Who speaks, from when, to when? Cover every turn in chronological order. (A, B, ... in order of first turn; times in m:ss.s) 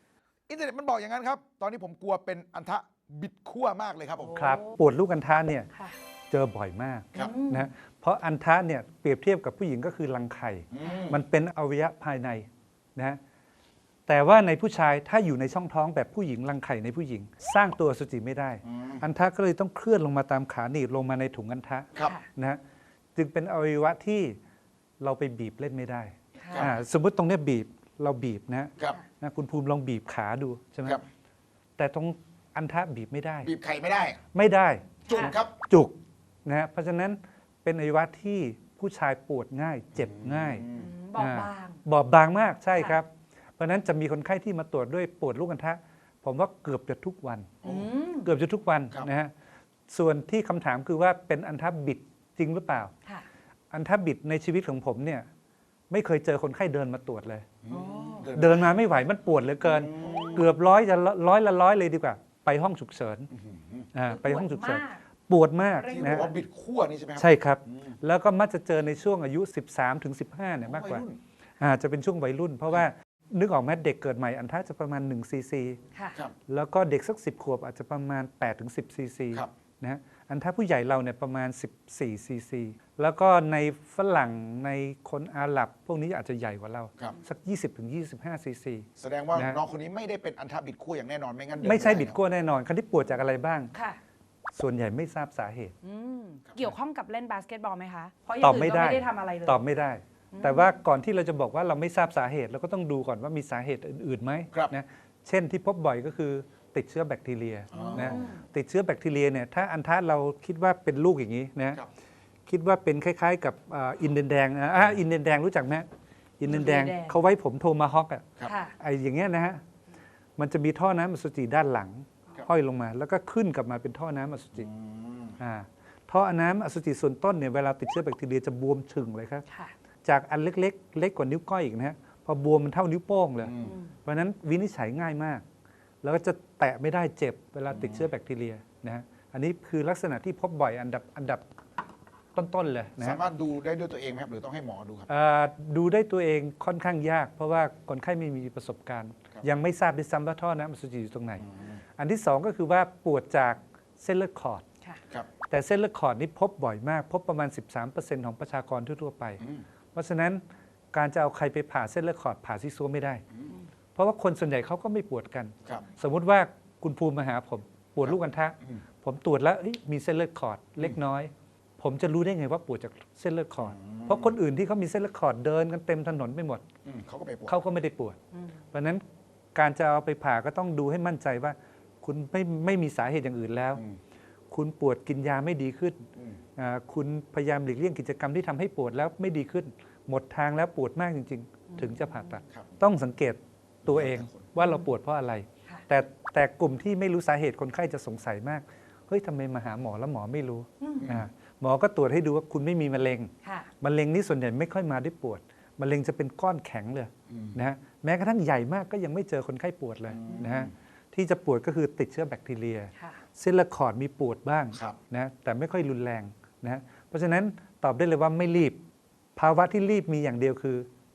0:00.5-0:04.4 A
0:04.2-0:04.8 B
0:04.4-0:05.7 C
0:06.3-0:13.2 C
0:07.2-0:07.7 B
0:10.7-0:11.2 A
0:14.1-0:22.6 C
0:18.6-0:19.0 A
0:22.0-0:22.2 B
0:23.2-0:24.4 C
0:25.0-0:31.0 C
0:26.4-0:26.7 B
0:31.8-0:33.5 C
0:33.4-0:34.2 A
0:34.3-0:35.0 C
0:35.0-0:35.4 B
0:35.1-0:35.5 A
0:35.7-0:47.6 C
0:40.0-0:40.9 A
0:40.7-0:41.8 B
0:47.6-0:47.9 A
0:47.6-0:48.3 B
0:48.2-0:49.3 C
0:49.9-0:52.9 C
0:53.7-0:55.3 C
0:55.9-0:57.4 C
0:57.6-0:58.7 A
0:57.7-0:58.4 B
0:58.3-1:03.3 C
0:59.6-1:00.5 A
1:03.3-1:03.9 A
1:03.9-1:06.3 C
1:04.1-1:05.0 B
1:05.8-1:06.3 B
1:05.8-1:07.9 A
1:07.2-1:11.0 C
1:10.6-1:11.2 A
1:11.6-1:15.8 C
1:15.9-1:16.2 B
1:16.5-1:29.6 C
1:29.0-1:32.2 A
1:31.6-1:33.7 C
1:33.7-1:34.0 B
1:34.5-1:35.7 C
1:35.8-1:39.6 B
1:38.4-1:51.8 C
1:40.3-1:40.8 B
1:47.7-1:48.3 A
1:47.7-1:48.4 B
1:52.4-1:55.9 C
1:56.4-1:59.6 C
1:56.5-1:57.2 B
1:58.4-1:58.7 B
2:00.4-2:04.7 C
2:04.6-2:05.4 A
2:05.4-2:09.4 C
2:09.5-2:09.7 B
2:10.0-2:13.5 C
2:13.4-2:13.8 A
2:13.6-2:13.9 B
2:14.0-2:15.4 C
2:16.0-2:21.4 C
2:17.7-2:18.0 A
2:22.3-2:23.2 C
2:23.0-2:25.1 A
2:25.1-2:31.4 C
2:31.4-2:31.8 A
2:32.0-2:34.6 C
2:35.5-2:39.4 C
2:39.9-2:40.4 C
2:40.9-2:43.2 C
2:43.9-2:56.6 C
2:48.0-2:48.8 A
2:53.6-2:54.3 A
2:56.8-2:57.6 A
2:57.5-2:58.2 C
2:58.7-2:59.0 C
2:59.5-3:03.8 C
3:04.5-3:06.0 C
3:06.6-3:38.8 C
3:11.7-3:12.4 B
3:12.5-3:12.8 A
3:13.8-3:14.5 A
3:20.8-3:21.1 B
3:21.0-3:21.3 A
3:23.4-3:23.7 B
3:27.3-3:27.6 A
3:30.1-3:30.7 A
3:33.0-3:33.2 B
3:39.4-3:40.9 C